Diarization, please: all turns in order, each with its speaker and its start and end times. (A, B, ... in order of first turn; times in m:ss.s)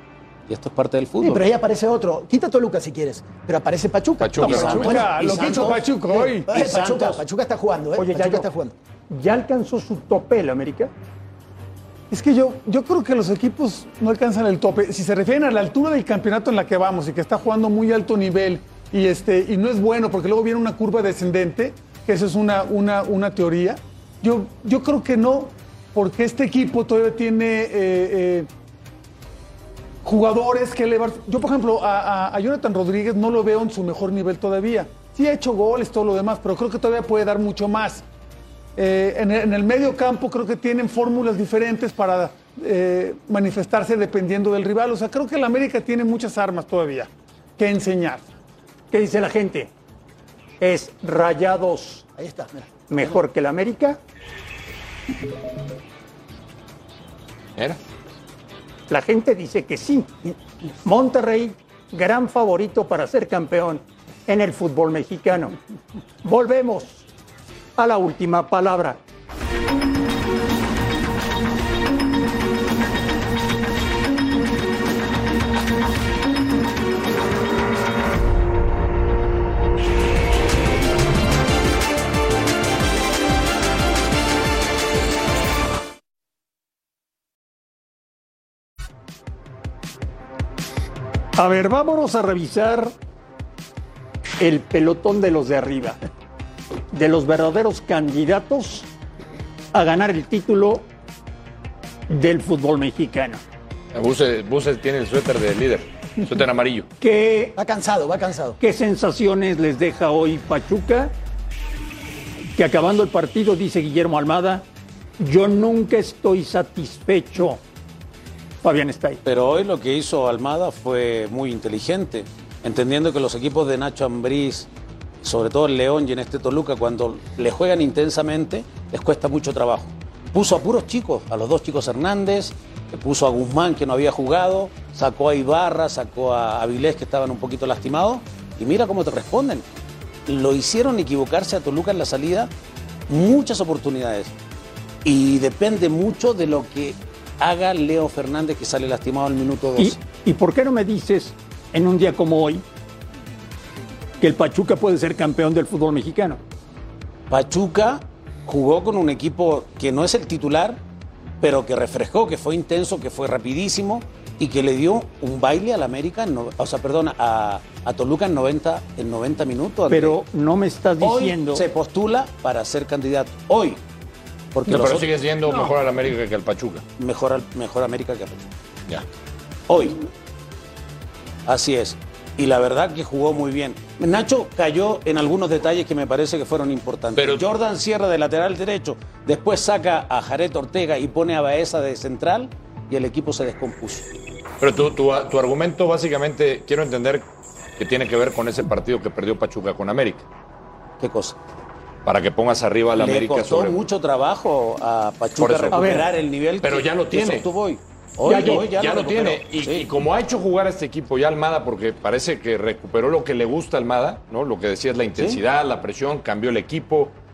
0:00.5-0:01.4 A
0:01.2-0:08.7 B
0:04.2-0:05.1 C
0:04.4-0:06.5 D
0:04.5-0:07.2 A
0:08.0-0:08.5 E
0:09.1-0:10.9 E
0:12.1-0:28.5 D
0:30.0-0:38.0 D
0:38.8-0:48.3 D
0:48.9-0:49.7 E
0:50.6-0:52.0 E
0:52.2-0:52.7 B
0:52.9-0:54.0 E
0:58.9-1:00.2 E
1:00.8-1:05.5 E
1:06.2-1:07.1 E
1:07.8-1:09.0 E
1:31.4-1:32.9 E
1:34.4-1:36.0 E
1:36.9-1:38.9 E
1:39.7-1:40.8 E
1:42.1-1:43.4 E
1:43.9-1:46.9 C
1:47.0-1:47.6 E
1:47.6-1:48.6 B
1:48.6-1:51.1 E
1:52.6-1:54.6 E
1:55.2-1:57.6 E
1:58.6-1:59.2 E
1:59.2-2:04.7 A
2:05.2-2:19.6 A
2:20.3-2:22.5 A
2:23.1-2:24.3 A
2:25.0-2:30.0 A
2:29.8-2:32.6 E
2:34.2-2:36.4 E
2:37.3-2:40.8 A
2:41.4-2:50.2 A
2:49.9-2:51.6 E
2:51.0-2:53.8 A
2:54.5-2:55.1 A
2:54.7-2:56.8 C
2:57.0-2:58.5 A
2:59.7-3:00.0 A
3:01.4-3:14.1 A
3:07.2-3:07.4 C
3:14.6-3:20.2 C
3:21.0-3:21.4 A
3:22.0-3:23.8 C
3:23.0-3:29.9 A
3:25.4-3:26.1 C
3:25.7-3:26.1 E
3:26.6-3:27.5 C
3:28.2-3:28.7 E
3:28.3-3:37.1 C